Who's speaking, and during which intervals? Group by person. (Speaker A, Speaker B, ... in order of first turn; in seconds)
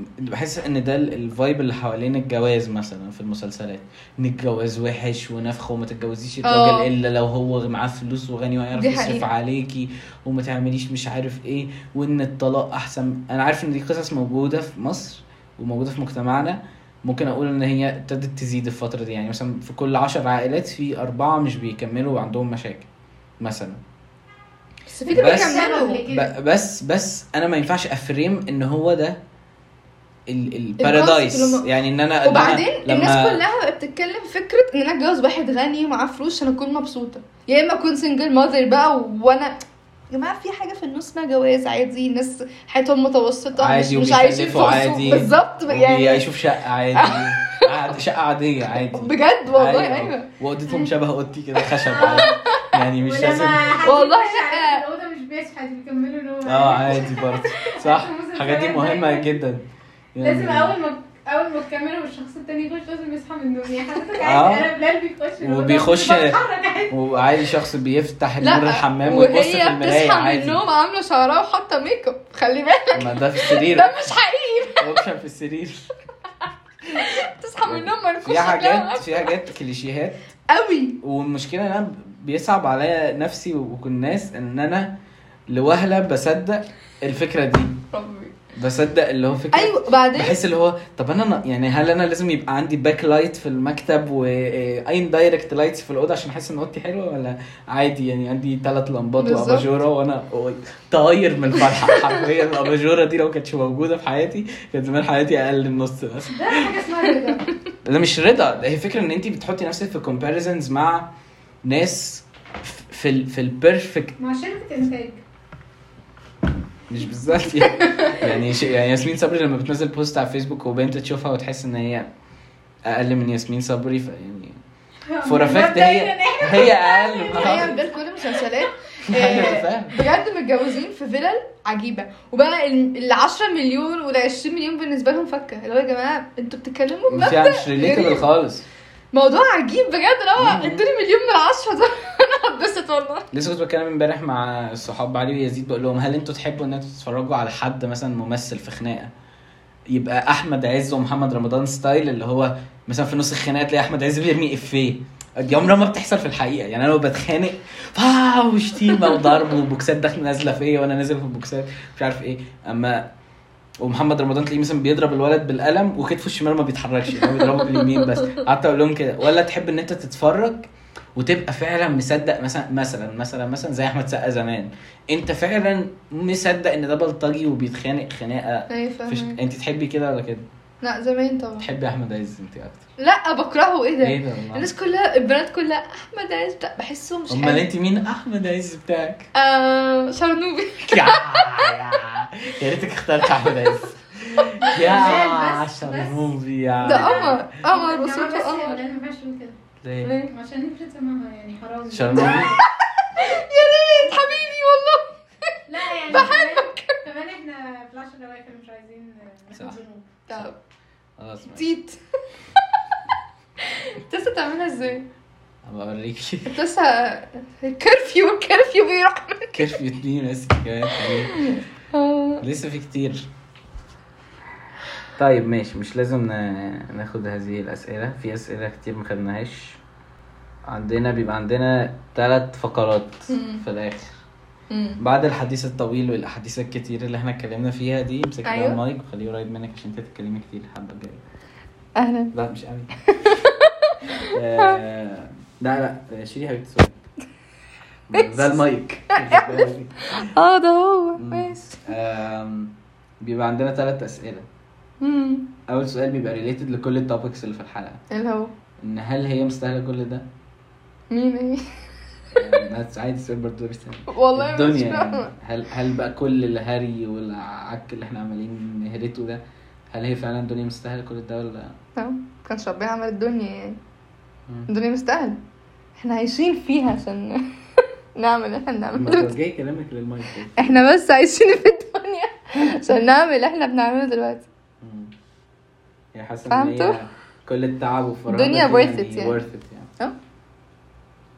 Speaker A: 0.2-22.9, 23.4-23.8, 25.1-29.2, 30.3-33.4, 43.5-53.8, 56.4-60.8, 64.2-64.7, 65.4-70.6, 72.9-74.1, 74.7-75.9, 77.6-80.2, 81.0-84.9, 85.5-87.8, 88.5-106.7, 107.8-111.1, 111.6-114.2, 116.9-122.1, 122.8-124.6, 125.2-127.7, 129.1-130.0, 137.1-138.6, 140.4-140.8, 143.3-149.1, 149.9-163.1, 163.8-180.5, 181.6-182.8, 184.0-184.7, 187.3-189.3, 190.9-197.4, 199.8-200.1, 201.9-202.6, 211.2-211.7, 215.6-216.6, 219.5-221.5, 222.4-223.3, 225.2-229.8, 230.7-234.1, 235.0-241.2, 242.3-242.9, 244.2-246.9, 248.1-250.3, 251.2-254.4, 255.7-258.0, 258.8-260.3, 262.3-271.7, 278.9-280.8, 284.8-285.1, 286.1-289.9
Speaker B: 6.4-6.9, 8.7-9.3, 24.9-26.0, 30.8-31.7, 32.2-39.5, 40.1-46.2, 46.9-47.8, 48.8-50.3, 52.0-52.7, 53.8-54.8, 57.0-57.2, 68.4-75.0, 76.9-79.3, 80.5-81.0, 87.9-88.3, 89.5-90.4, 99.2-99.7, 101.9-102.2, 117.7-118.2, 127.4-138.2, 139.1-143.3, 167.5-168.1, 178.7-179.4, 180.8-181.7, 183.0-187.7, 189.3-191.8, 194.6-195.0, 196.8-198.8, 200.0-200.3, 202.2-205.1, 206.1-207.0, 210.3-210.6, 211.5-212.0, 213.6-215.1, 216.5-219.6, 220.9-222.4, 233.3-233.6, 234.7-235.0, 238.4-238.8, 242.0-242.3, 243.0-244.8, 248.1-251.8, 255.0-255.5, 258.1-258.5, 261.1-261.6, 264.1-265.3, 272.0-273.8, 274.7-275.4, 276.0-277.4, 278.1-279.3, 280.6-284.5, 286.5-287.0, 288.3-289.4
Speaker C: 25.1-26.3, 51.8-52.4, 53.0-59.3, 60.2-67.0, 106.3-107.4, 114.2-115.2, 125.1-128.5, 194.6-199.6, 200.2-202.6, 205.7-210.1